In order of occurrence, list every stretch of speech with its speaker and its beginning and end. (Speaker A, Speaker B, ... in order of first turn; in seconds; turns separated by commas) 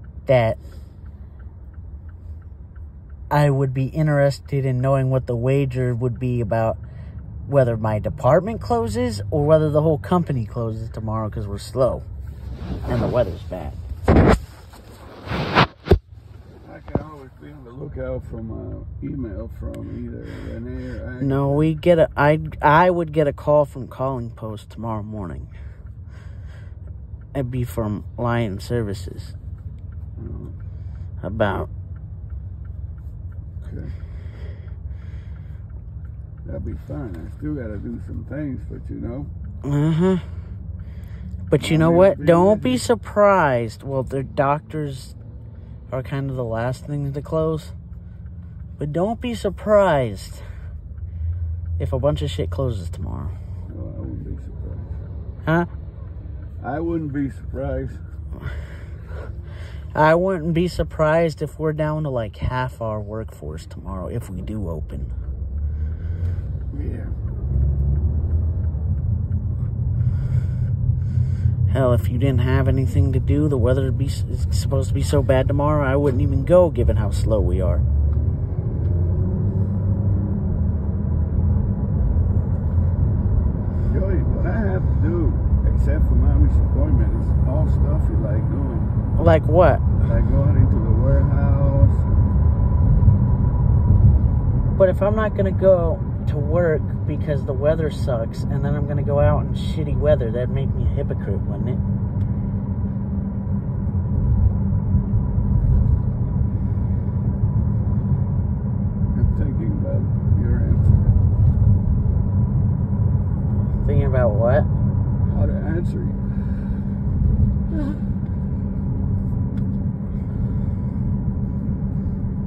Speaker A: 0.3-0.6, Speaker A: 3.3-6.8, Speaker A: 7.5-12.1, Speaker A: 12.9-13.8, Speaker B: 16.6-21.8, Speaker A: 21.2-25.5, Speaker A: 27.3-29.4, Speaker B: 30.2-30.6, Speaker A: 31.2-31.7, Speaker B: 33.6-34.0, Speaker B: 36.5-39.3, Speaker A: 39.6-40.3, Speaker A: 41.5-45.2, Speaker B: 41.6-42.9, Speaker A: 45.9-47.7, Speaker A: 48.8-50.4, Speaker A: 51.8-53.3, Speaker B: 53.7-55.0, Speaker B: 56.6-58.0, Speaker A: 60.0-65.1, Speaker B: 66.7-67.2, Speaker A: 71.7-77.8, Speaker B: 83.8-88.9, Speaker A: 89.2-89.9, Speaker B: 90.0-92.1, Speaker A: 94.8-101.8, Speaker B: 109.1-111.2, Speaker A: 113.8-114.7, Speaker B: 115.2-116.2